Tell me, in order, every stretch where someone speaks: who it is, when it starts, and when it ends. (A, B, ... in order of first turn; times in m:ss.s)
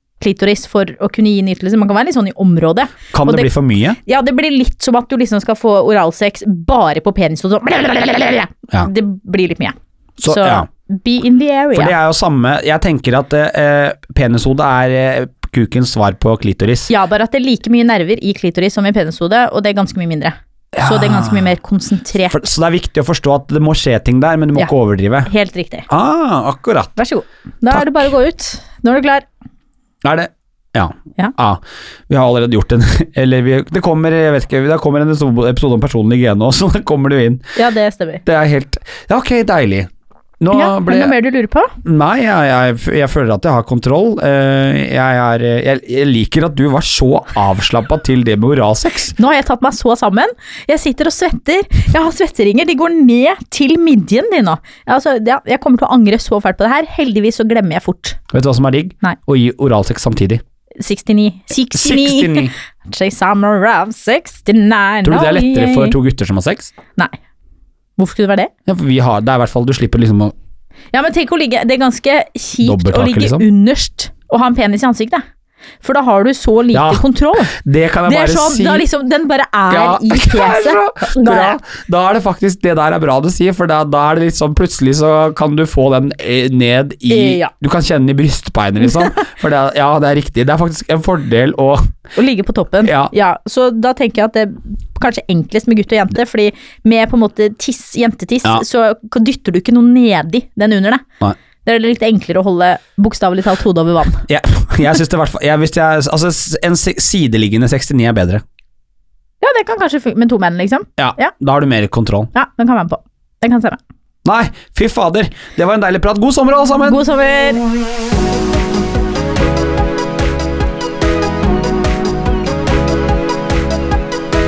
0:00.2-0:12.0 A
0:03.1-0:04.0 B
0:10.2-0:10.7 B
0:11.7-0:16.9 B
0:16.9-0:22.4 A
0:20.8-0:21.5 B
0:22.3-0:25.3 B
0:25.3-0:25.9 A
0:25.9-0:27.0 B
0:27.0-0:29.2 A
0:27.7-0:28.1 B
0:30.0-0:37.4 B
0:37.6-0:38.2 A
0:38.3-0:41.1 B
0:40.5-0:41.7 A
0:41.8-0:49.2 B
0:49.2-0:58.2 A
0:58.3-1:00.4 B
1:00.8-1:06.0 A
1:01.8-1:02.5 B
1:05.0-1:06.7 B
1:08.0-1:08.5 A
1:08.7-1:10.3 B
1:10.9-1:15.2 A
1:12.6-1:13.5 B
1:15.8-1:17.5 A
1:16.7-1:18.9 B
1:18.1-1:21.6 A
1:19.7-1:31.8 B
1:27.1-1:27.5 A
1:28.8-1:29.2 A
1:32.2-1:41.0 A
1:32.8-1:33.1 B
1:41.6-1:44.2 A
1:44.3-1:48.4 B
1:49.4-1:51.3 A
1:51.0-1:52.3 B
1:52.3-1:53.8 A
1:54.2-1:57.0 B
1:56.8-1:57.6 A